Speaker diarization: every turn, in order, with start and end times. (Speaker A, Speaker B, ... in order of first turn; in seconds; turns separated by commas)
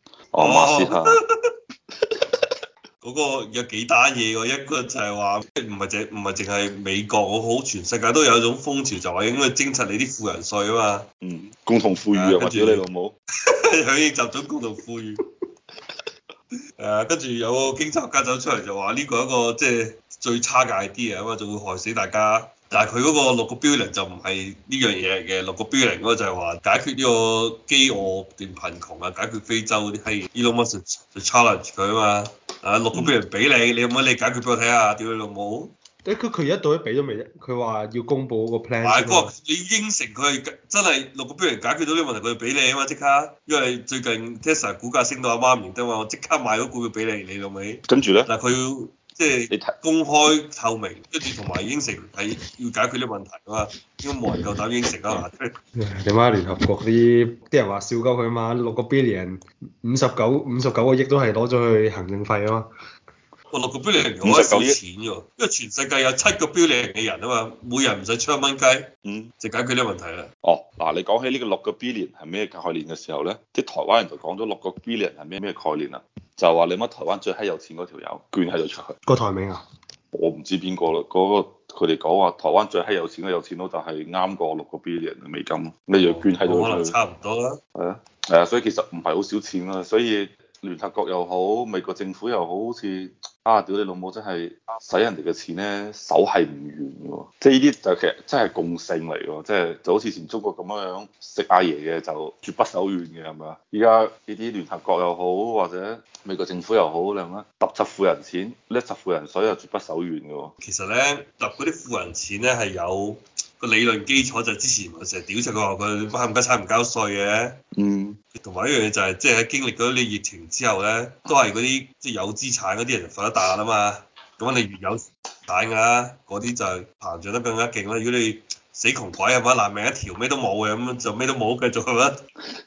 Speaker A: 0.3-1.2, Speaker B: 0.4-1.5, Speaker B: 3.0-11.1, Speaker A: 11.2-13.2, Speaker B: 12.1-12.8, Speaker B: 13.5-15.2, Speaker B: 16.8-35.7, Speaker C: 36.0-39.3, Speaker B: 38.8-55.5, Speaker A: 47.9-48.3, Speaker A: 49.5-49.8, Speaker C: 55.8-62.7, Speaker B: 63.5-68.9, Speaker A: 64.2-64.8, Speaker A: 69.0-69.3, Speaker B: 69.4-70.3, Speaker A: 70.4-79.0, Speaker C: 79.1-79.6, Speaker A: 80.1-87.0, Speaker B: 86.0-87.6, Speaker A: 87.8-110.5, Speaker B: 110.6-117.6, Speaker A: 117.8-118.2, Speaker B: 118.3-132.2